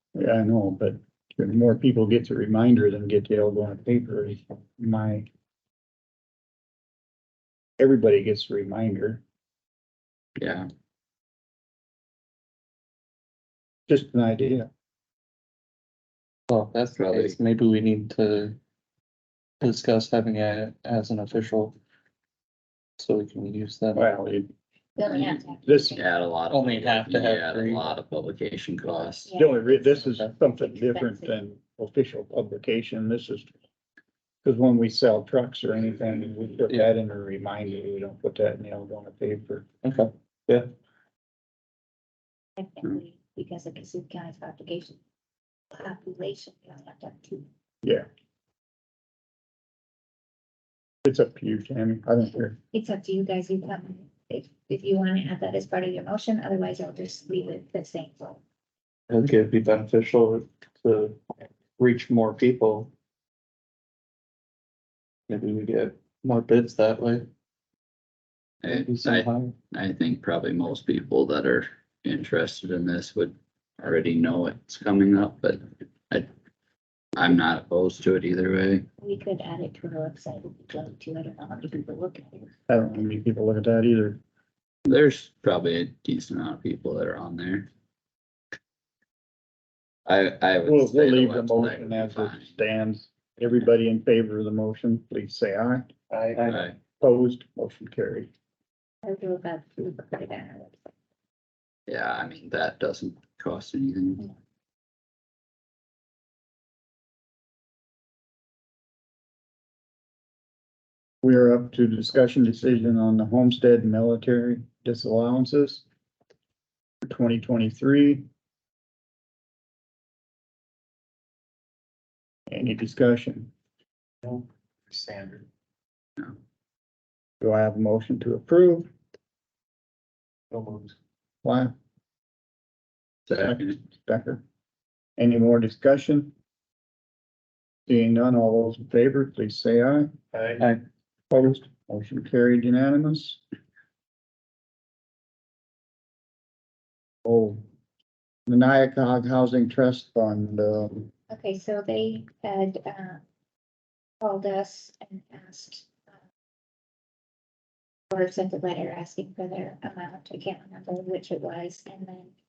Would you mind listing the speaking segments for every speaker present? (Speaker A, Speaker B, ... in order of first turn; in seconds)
Speaker A: 0.1-5.3, 7.8-9.2, 13.9-14.7, 23.9-24.5, 25.7-25.9, 29.4-33.5, 34.4-39.6, 51.0-52.6, 82.7-84.2, 90.7-95.9, 97.0-98.3, 111.2-115.8, 117.0-118.2, 122.5-123.5, 127.4-128.9, 131.4-131.8, 133.4-134.4, 135.2-136.3, 137.9-140.1, 141.3-143.4, 147.2-147.6, 148.5-151.1
Speaker B: 10.4-10.7, 16.9-17.4, 25.1-29.3, 68.6-76.3, 77.2-78.9, 84.9-87.7, 90.0-92.5, 96.5-96.8, 101.9-104.2, 133.3-133.8
Speaker C: 16.5-18.6, 19.6-21.8, 23.0-24.2, 26.5-27.9, 39.8-40.7, 59.1-61.2, 61.8-62.9, 65.3-67.3, 68.6-69.5, 96.3-96.6
Speaker D: 25.0-26.1, 29.2-31.4, 42.6-45.0, 45.7-47.5, 52.7-58.4, 79.0-82.5, 99.0-100.9, 151.3-153.2, 154.2-155.9, 158.1-162.3
Speaker E: 96.1-96.5, 124.2-125.5, 130.5-130.9, 140.3-140.6